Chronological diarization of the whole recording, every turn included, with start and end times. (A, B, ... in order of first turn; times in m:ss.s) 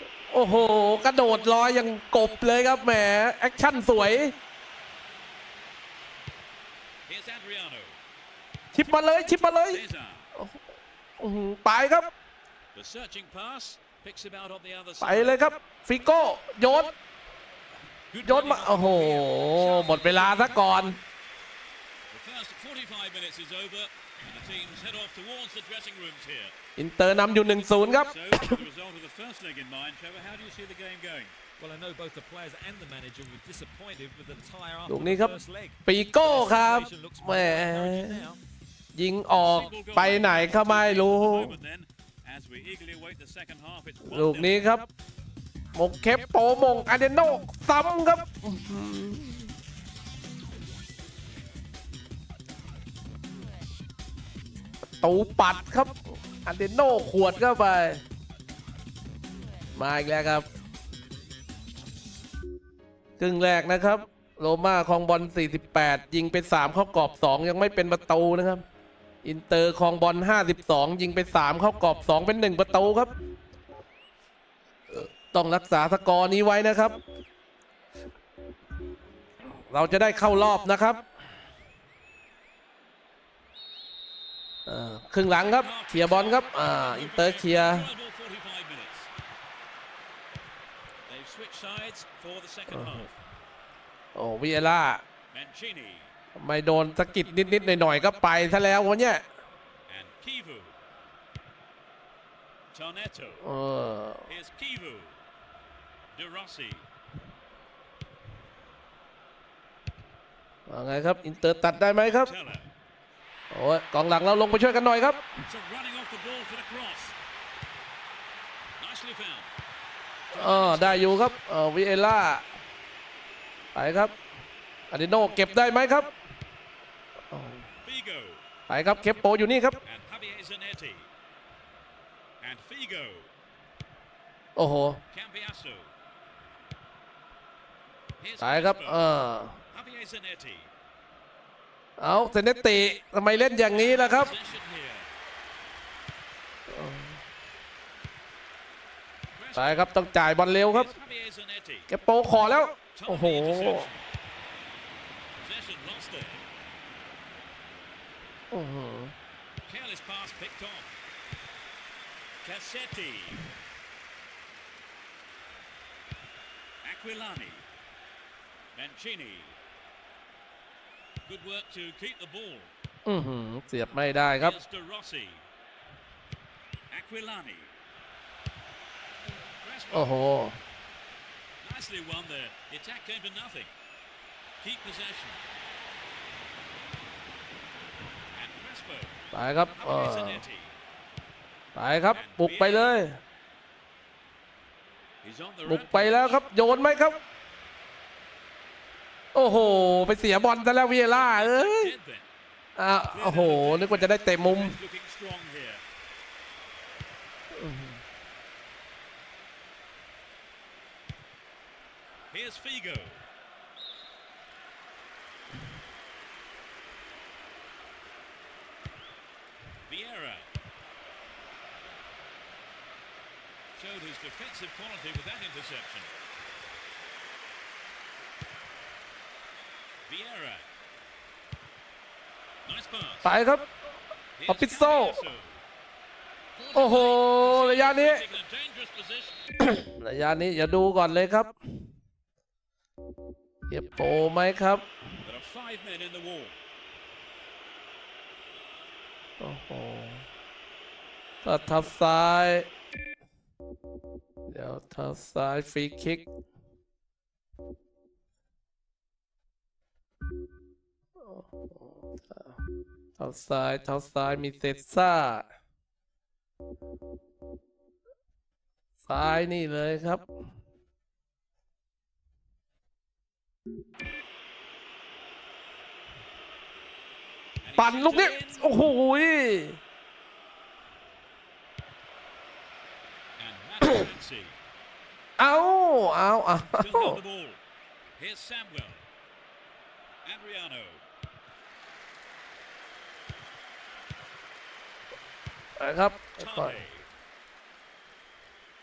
0:00.3-0:04.4 A
0:07.1-0:08.0 B
0:08.7-0:09.8 A
0:09.7-0:10.3 B
0:11.2-0:12.1 A
0:12.7-0:15.5 B
0:15.0-0:16.9 A
0:18.1-0:20.9 B
0:18.2-0:21.0 A
0:22.1-0:26.6 B
0:26.8-0:28.6 A
0:27.9-0:31.4 B
0:31.6-0:38.4 C
0:34.9-0:38.2 A
0:39.0-0:41.6 A
0:39.3-0:44.6 B
0:44.1-0:44.9 A
0:45.8-0:49.5 A
0:55.0-0:58.0 A
0:59.8-1:00.5 A
1:03.2-1:08.6 A
1:09.2-1:13.1 A
1:14.9-1:17.0 A
1:19.6-1:21.0 A
1:24.7-1:27.9 A
1:25.4-1:29.1 B
1:31.1-1:33.2 B
1:32.7-1:33.1 A
1:34.2-1:35.0 A
1:35.3-1:36.1 B
1:36.4-1:39.2 A
1:39.9-1:40.8 B
1:42.7-1:43.4 B
1:43.4-1:44.3 A
1:44.3-1:45.2 B
1:46.1-1:46.8 B
1:50.7-1:52.3 A
1:52.0-1:52.7 B
1:53.5-1:55.2 A
1:55.5-1:57.2 B
1:58.8-1:59.5 B
2:00.3-2:01.4 B
2:00.3-2:02.4 A
2:03.8-2:04.2 A
2:04.9-2:06.1 A
2:07.3-2:07.7 A
2:07.8-2:08.4 B
2:08.7-2:09.8 A
2:09.8-2:11.1 B
2:12.4-2:13.3 B
2:14.6-2:15.0 A
2:15.1-2:15.9 B
2:18.2-2:19.1 B
2:18.4-2:19.6 A
2:19.7-2:20.7 B
2:22.0-2:24.3 A
2:23.7-2:25.1 B
2:26.7-2:27.2 A
2:29.4-2:29.9 B
2:29.6-2:30.9 A
2:30.6-2:31.9 B
2:31.9-2:33.9 A
2:32.9-2:34.0 B
2:35.4-2:36.4 B
2:38.5-2:39.1 A
2:39.7-2:41.0 B
2:42.4-2:43.5 B
2:46.8-2:47.7 B
2:48.8-2:49.6 B
2:51.3-2:52.7 B
2:53.1-2:54.6 A
2:54.4-2:55.5 B
2:56.9-2:57.7 B
2:59.3-3:00.2 B
2:59.9-3:00.6 A
3:01.6-3:03.7 B
3:04.6-3:05.4 B
3:08.3-3:10.8 B
3:09.3-3:10.4 A
3:11.8-3:13.2 A
3:12.1-3:13.0 B
3:15.2-3:16.4 B
3:15.6-3:17.2 A
3:19.3-3:21.9 A
3:21.2-3:22.3 B
3:22.8-3:24.8 A
3:23.1-3:25.8 B
3:27.5-3:28.0 A
3:32.3-3:33.2 B
3:39.9-3:40.5 B
3:43.7-3:46.1 B
3:50.1-3:50.7 B
3:52.6-3:53.3 B
3:53.2-3:53.7 A
3:54.4-3:55.6 B
3:54.5-3:55.2 A
3:56.6-3:59.4 B
3:56.7-3:58.2 A
3:59.6-4:01.6 A
4:03.7-4:04.9 A
4:05.2-4:06.6 B
4:09.4-4:10.3 A
4:11.4-4:12.7 A
4:14.5-4:16.3 A
4:21.2-4:22.6 A
4:23.2-4:25.5 A
4:29.0-4:30.2 A
4:37.6-4:38.9 B
4:37.8-4:39.8 A
4:43.4-4:44.6 B
4:45.4-4:47.2 A
4:46.8-4:47.6 B
4:48.2-4:49.1 B
4:50.2-4:51.0 B
4:55.8-4:56.8 A
4:56.4-4:57.1 B